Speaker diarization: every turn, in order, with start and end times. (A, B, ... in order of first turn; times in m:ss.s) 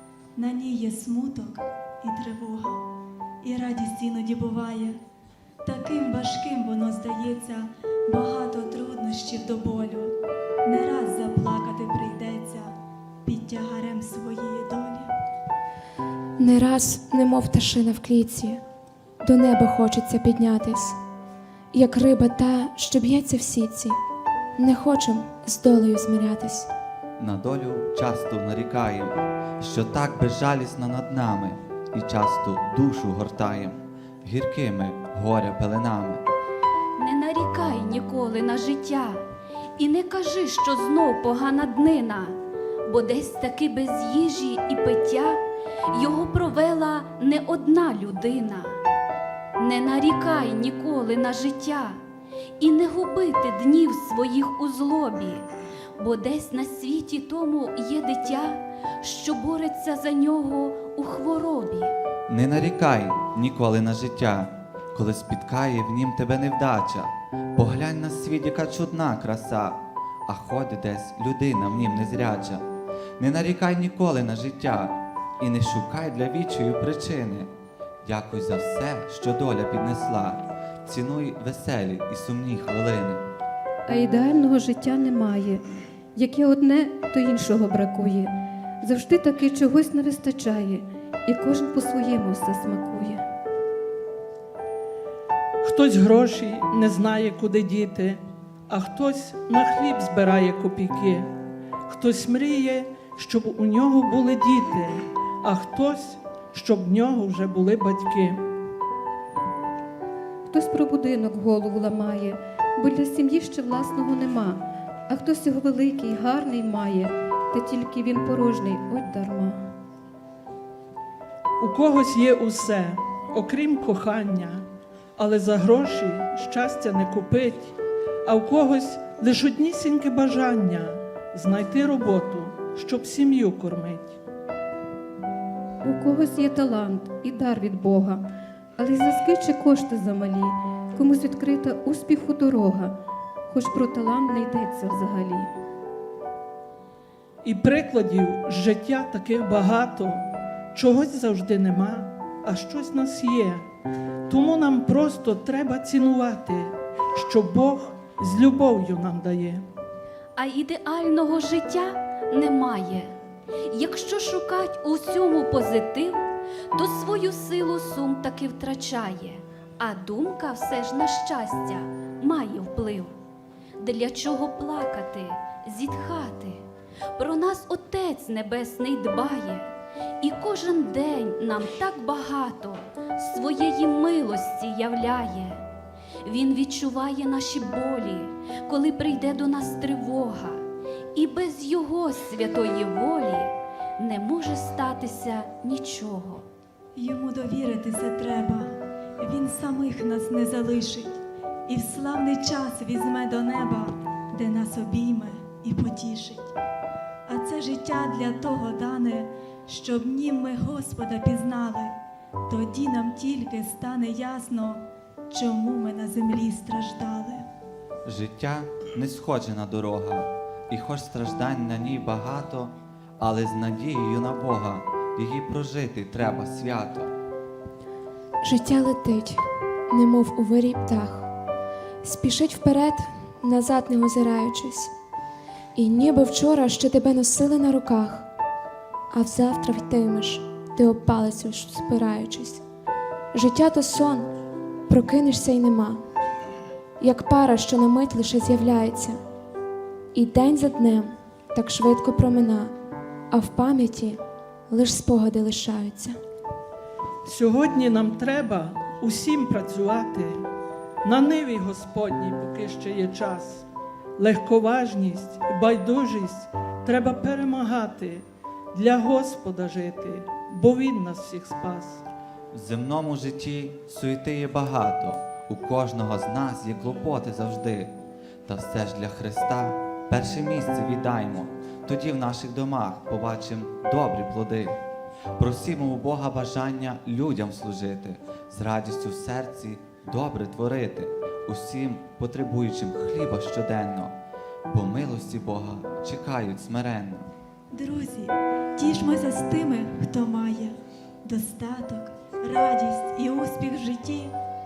0:00.4-0:02.8 A
0:03.4-0:05.0 A
0:05.6-0:15.1 A
0:16.4-0:18.6 B
0:19.2-0:21.0 B
0:21.7-0:24.0 B
0:24.6-0:26.7 B
0:27.2-0:36.2 C
0:37.0-0:39.2 D
0:39.8-0:48.8 D
0:49.6-0:52.0 D
0:52.6-0:55.5 D
0:56.0-1:01.9 D
1:02.3-1:12.7 C
1:13.2-1:17.5 C
1:18.0-1:23.2 C
1:23.9-1:25.6 E
1:26.2-1:33.2 E
1:35.6-1:41.3 F
1:41.9-1:48.4 F
1:50.5-1:59.6 E
2:01.6-2:14.2 F
2:15.8-2:18.2 E
2:18.8-2:22.9 E
2:23.5-2:25.5 E
2:27.4-2:33.6 F
2:34.3-2:39.6 F
2:40.4-2:43.1 D
2:43.7-2:53.2 D
2:53.8-2:59.7 D
3:00.2-3:05.6 D
3:06.2-3:10.6 D
3:11.2-3:16.4 D
3:17.0-3:26.6 A
3:27.3-3:37.5 A
3:38.0-3:47.1 C
3:48.4-3:51.3 B
3:52.0-3:54.9 B
3:55.8-3:58.3 B
3:59.1-4:02.6 B
4:03.3-4:04.3 B
4:04.9-4:06.0 B
4:07.0-4:09.2 B
4:10.1-4:12.7 B
4:13.3-4:16.2 B
4:17.2-4:20.4 F
4:21.0-4:23.7 F
4:24.2-4:32.0 F
4:32.5-4:37.9 C
4:38.5-4:44.8 C
4:45.4-4:54.2 C
4:54.7-4:57.3 C
4:57.7-5:04.3 A